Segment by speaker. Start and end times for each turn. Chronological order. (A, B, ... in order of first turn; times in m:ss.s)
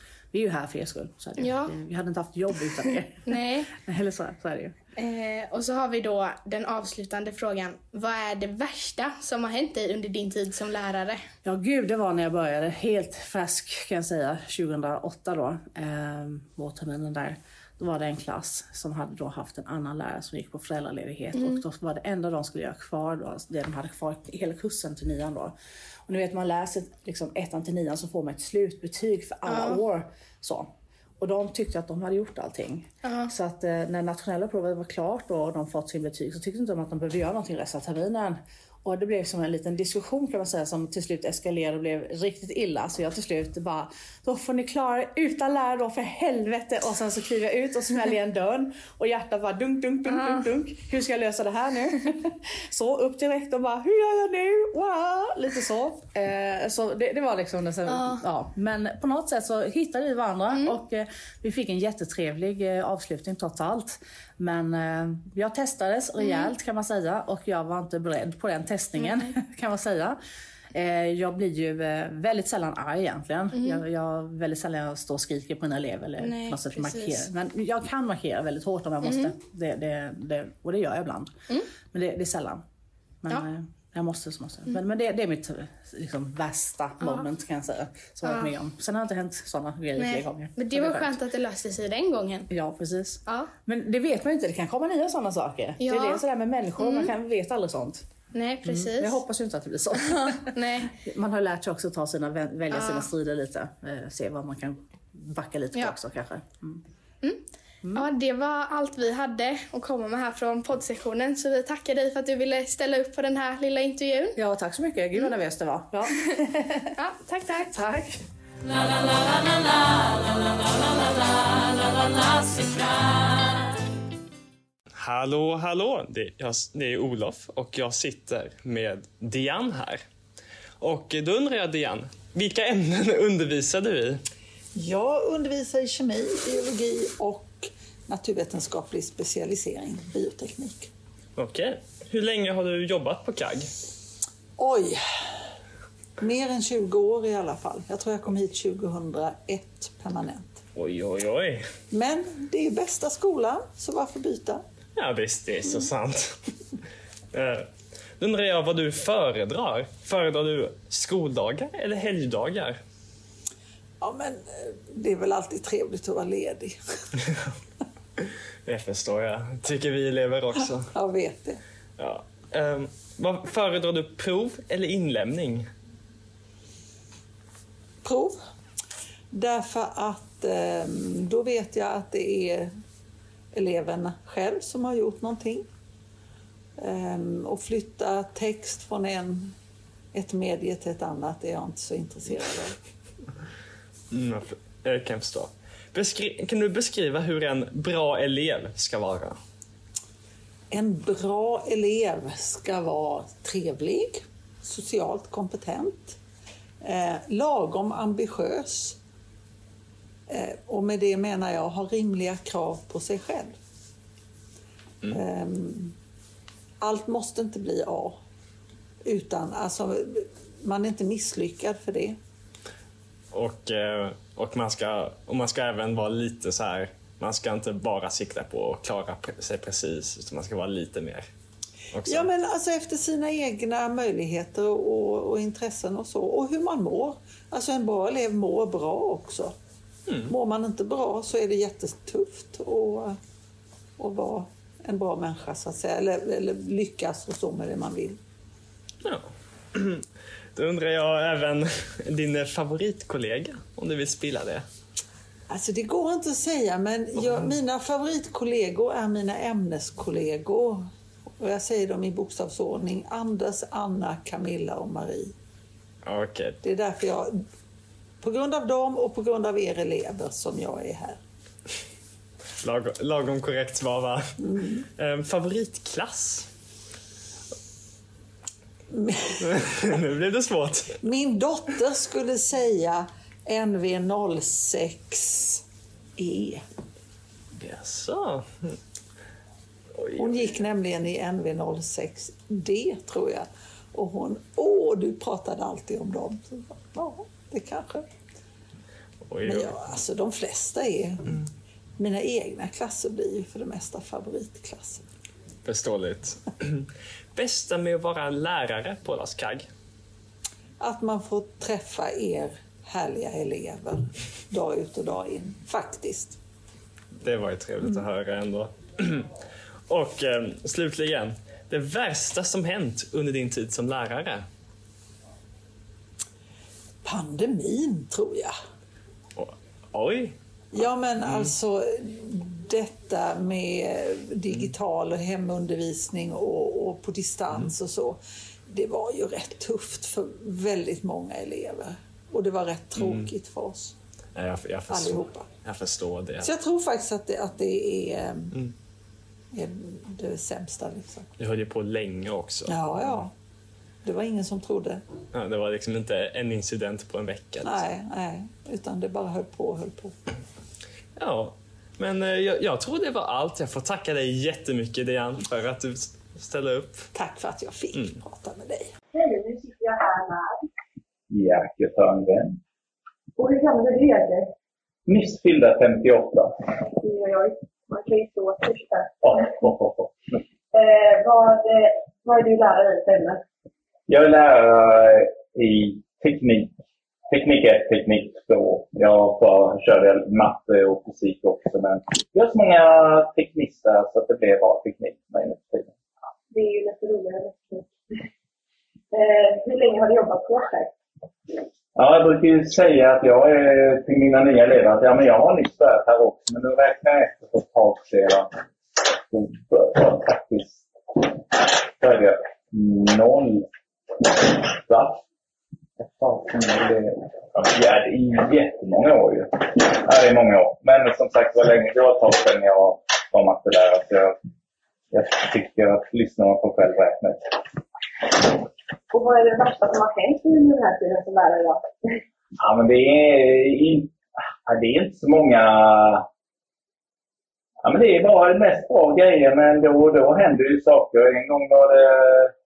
0:00.3-0:04.7 A
0:01.4-0:01.7 B
0:03.2-0:03.7 B
0:05.0-0:11.2 B
0:11.4-0:25.5 A
0:21.3-0:21.6 B
0:26.1-0:30.7 A
0:29.4-0:29.8 B
0:31.2-1:10.2 A
0:33.0-0:33.3 B
0:50.1-0:50.5 B
0:57.9-0:58.2 B
1:00.5-1:00.8 B
1:06.2-1:06.5 B
1:09.0-1:09.3 B
1:10.7-1:21.3 A
1:13.5-1:13.8 B
1:16.2-1:17.3 B
1:19.0-1:19.4 B
1:21.9-1:22.6 A
1:23.2-1:31.2 A
1:27.0-1:27.3 B
1:28.2-1:28.5 B
1:30.0-1:32.5 B
1:32.5-1:38.0 A
1:33.2-1:33.5 B
1:35.8-1:36.2 B
1:36.8-1:37.1 B
1:38.3-1:39.2 B
1:38.6-1:46.8 A
1:40.5-1:40.9 B
1:42.7-1:43.1 B
1:47.8-1:48.1 A
1:48.0-1:54.4 B
1:54.4-1:56.9 A
1:57.0-1:57.7 B
1:57.6-1:58.2 A
2:05.0-2:10.0 C
2:10.8-2:14.2 C
2:14.8-2:20.9 D
2:21.4-2:23.7 C
2:24.6-2:25.0 D
2:26.2-2:30.6 D
2:30.8-2:31.6 C
2:31.9-2:34.6 D
2:35.0-2:36.5 C
2:37.3-2:37.7 C
2:38.2-2:42.8 C
2:44.0-2:46.8 D
2:48.2-2:50.9 C
2:50.9-2:51.6 D
2:52.0-2:55.7 C
2:58.0-2:58.4 D
2:59.3-3:02.7 D
3:03.5-3:05.6 D
3:06.8-3:09.5 D
3:10.1-3:12.8 D
3:14.1-3:19.4 C
3:20.7-3:26.2 D
3:26.8-3:29.0 D
3:30.3-3:33.6 D
3:35.1-3:35.9 D
3:36.8-3:38.2 D
3:39.0-3:42.2 D
3:43.3-3:51.3 C
3:51.9-3:52.3 C
3:52.0-3:59.5 D
4:00.1-4:00.3 C
4:00.3-4:03.2 D
4:04.0-4:08.2 D
4:09.8-4:14.6 C
4:15.5-4:20.8 D
4:21.4-4:25.3 D
4:26.0-4:26.6 C
4:26.6-4:27.3 D
4:28.2-4:31.2 D
4:32.6-4:36.5 C
4:34.4-4:34.8 D
4:38.9-4:39.6 D
4:39.4-4:41.0 C
4:41.0-4:45.6 D
4:46.2-4:46.6 D
4:47.6-4:48.8 C
4:49.9-4:50.5 C
4:50.2-4:58.1 D
4:59.2-4:59.8 C
4:59.4-5:01.4 D
5:02.0-5:05.0 D
5:05.6-5:09.7 C
5:10.8-5:16.4 D
5:17.2-5:19.3 C
5:19.9-5:24.5 C
5:27.0-5:28.5 D
5:29.4-5:30.4 C
5:30.7-5:44.0 D
5:31.2-5:31.5 C
5:43.0-5:43.3 C
5:44.4-5:46.5 C
5:44.9-5:45.5 D
5:46.4-5:48.6 D
5:49.5-5:51.3 D
5:51.4-5:53.3 C
5:52.7-5:53.3 D
5:54.0-5:55.0 D
5:55.3-5:57.8 C
5:57.6-6:00.1 D
6:01.2-6:07.1 C
6:07.1-6:08.9 D
6:07.9-6:08.2 C
6:09.1-6:10.6 E
6:11.3-6:12.6 F
6:13.4-6:14.5 E
6:15.1-6:16.5 F
6:16.8-6:19.2 E
6:19.2-6:20.4 F
6:20.7-6:23.4 E
6:24.1-6:26.7 F
6:27.3-6:36.0 F
6:36.5-6:37.9 E
6:39.1-6:41.0 E
6:42.0-6:53.6 F
6:54.2-6:55.2 F
6:56.0-7:04.3 F
7:05.1-7:07.5 F
7:09.1-7:12.2 E
7:12.6-7:14.1 F
7:14.7-7:16.2 F
7:17.8-7:22.5 F